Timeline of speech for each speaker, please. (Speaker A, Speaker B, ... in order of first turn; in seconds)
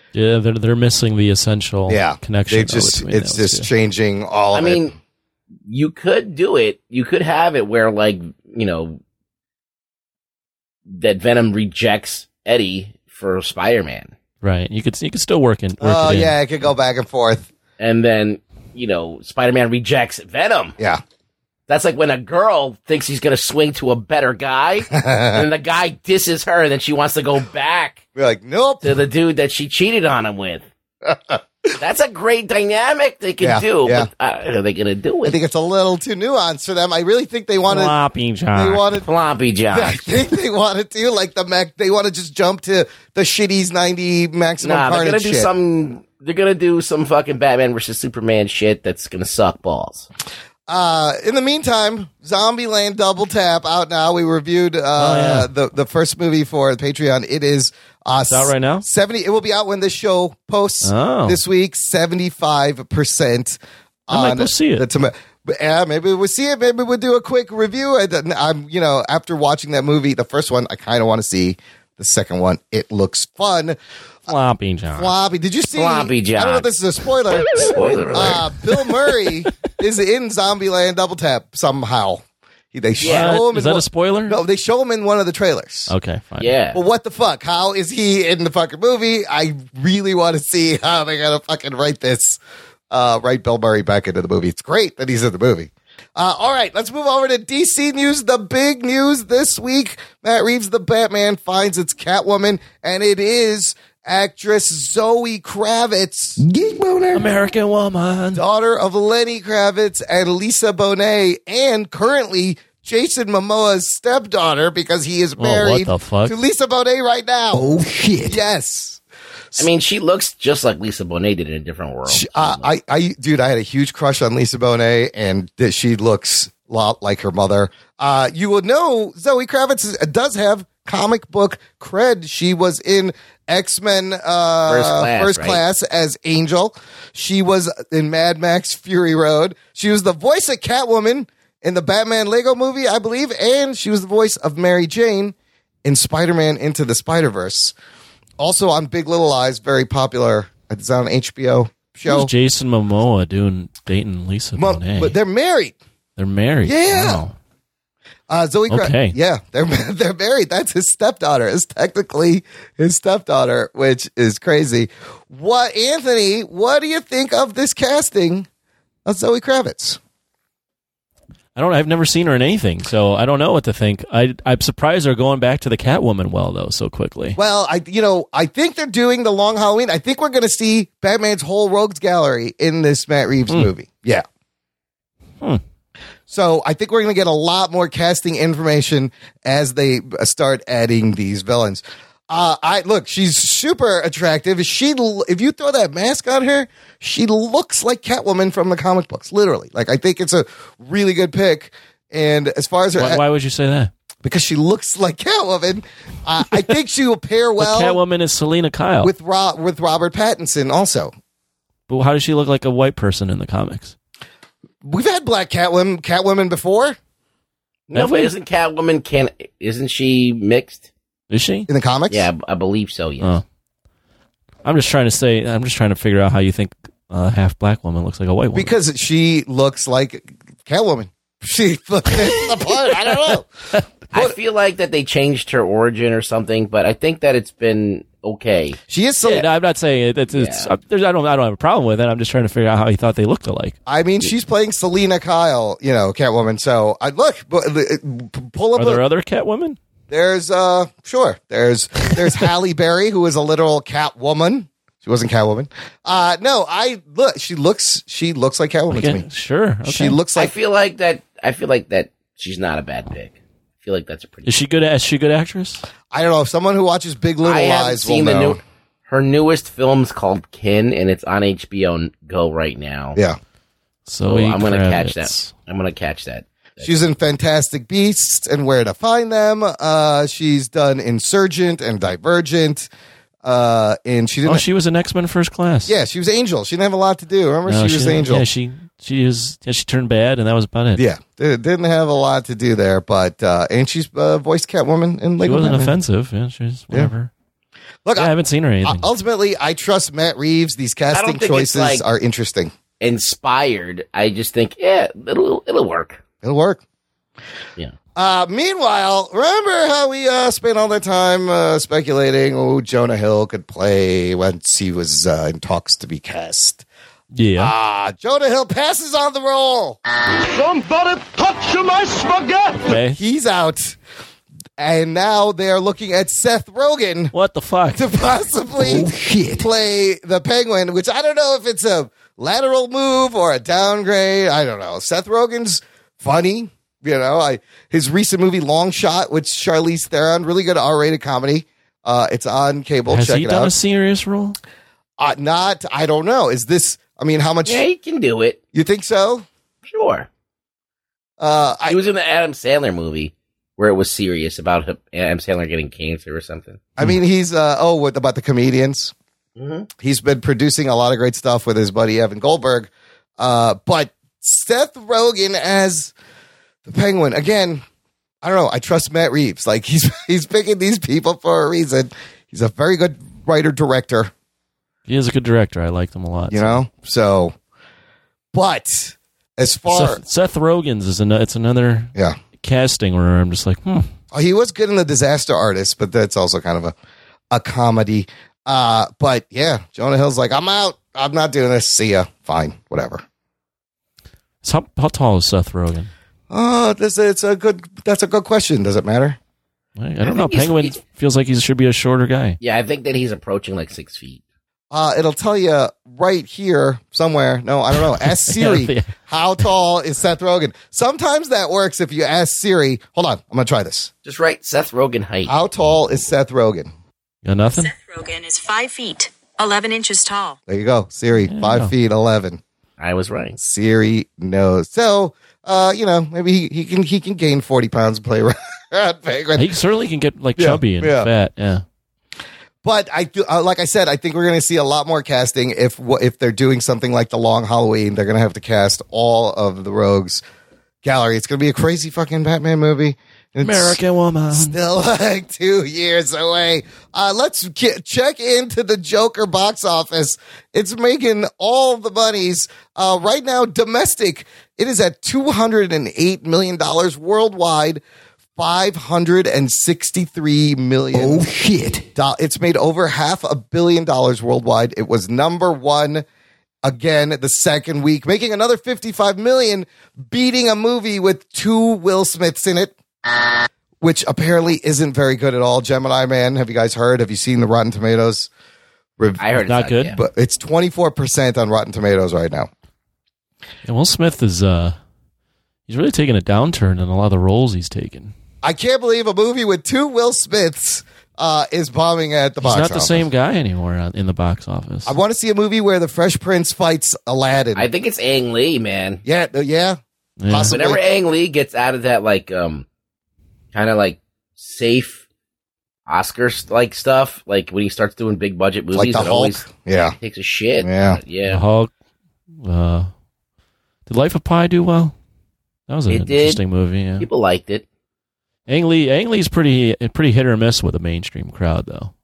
Speaker A: 0.1-3.7, 14.4-16.3, 37.7-38.9, 55.0-55.5, 58.3-58.8, 60.8-61.4, 64.1-64.8, 74.3-75.1, 83.0-84.4, 85.9-86.5, 107.1-108.4, 115.4-116.3, 152.1-155.2, 156.2-157.3, 158.7-159.2, 171.6-177.4, 202.9-203.9, 207.6-209.1, 211.9-213.9, 217.9-218.3, 221.3-221.7, 224.6-228.7, 239.2-243.8, 248.8-249.8, 258.9-260.2, 264.4-265.8, 274.1-275.5, 284.4-285.9, 287.6-291.0, 295.4-297.3, 298.1-299.1, 317.3-317.7, 322.8-323.2, 327.3-328.1, 343.1-344.6, 375.1-376.8, 379.9-384.1, 394.6-396.1, 400.0-402.6, 408.0-409.1, 417.4-417.9, 421.4-421.9, 429.6-431.8, 443.6-444.8, 479.6-480.1, 483.9-484.9, 485.9-488.3, 492.6-495.1, 500.4-500.7, 511.5-511.9, 512.6-513.1, 514.1-515.1, 515.9-517.3, 518.7-522.1
Speaker B: 1.9-4.9, 15.8-17.5, 24.9-25.4, 28.1-29.0, 31.1-31.4, 33.4-34.1, 35.2-38.0, 38.5-39.0, 39.7-45.5, 50.7-73.8, 74.9-82.2, 82.7-85.9, 86.7-92.4, 92.9-106.4, 108.3-117.6, 118.3-119.0, 122.1-145.3, 145.8-147.7, 148.4-152.3, 154.6-155.8, 156.6-157.2, 158.3-168.5, 169.1-170.0, 177.3-184.2, 186.3-203.2, 204.2-208.0, 209.0-211.1, 214.8-217.0, 221.7-222.3, 228.5-233.4, 238.9-239.4, 243.9-249.0, 250.1-259.2, 259.8-260.5, 266.1-268.6, 276.8-282.9, 283.4-284.6, 285.9-288.4, 290.9-295.9, 298.0-298.3, 298.8-302.7, 306.4-306.8, 308.1-316.8, 317.6-320.0, 323.1-324.0, 324.8-327.3, 327.9-343.7, 345.2-347.8, 348.7-349.4, 351.4-352.0, 357.0-359.1, 360.0-366.1, 366.9-367.8, 368.4-374.3, 376.5-377.5, 378.5-380.2, 384.3-386.9, 387.5-393.2, 396.5-399.4, 404.9-414.1, 415.4-416.9, 420.7-422.6, 423.6-429.6, 430.6-431.3, 432.8-440.4, 441.0-444.0, 444.5-458.0, 458.6-461.4, 462.1-466.2, 466.8-472.9, 474.0-478.5, 479.2-479.4, 480.1-482.7, 488.6-493.2, 495.1-497.9, 499.2-501.0, 508.9-510.1, 510.8-511.2
Speaker C: 4.5-4.9, 5.7-9.0, 10.9-14.1, 17.8-20.8, 21.7-28.0, 28.8-30.7, 31.8-35.4, 39.0-40.1, 44.6-50.1, 75.7-76.7, 77.5-78.5, 83.0-83.4, 86.4-86.8, 119.6-122.7, 134.7-135.6, 217.9-220.9, 222.1-223.4, 234.1-238.8, 240.3-240.7, 260.3-264.5, 267.4-273.2, 274.2-276.9, 301.1-302.0, 303.0-306.2, 347.6-348.6, 349.9-350.3, 351.9-356.8, 359.6-359.9, 400.2-401.0, 402.6-404.4, 414.2-415.5, 423.0-423.6, 479.4-480.2, 497.7-499.2, 500.7-502.9, 503.7-505.2, 506.1-509.7, 510.2-511.6, 516.1-516.6, 517.2-517.8
Speaker D: 106.4-107.3, 117.5-118.4, 328.8-329.6, 461.1-462.0
Speaker E: 417.9-420.6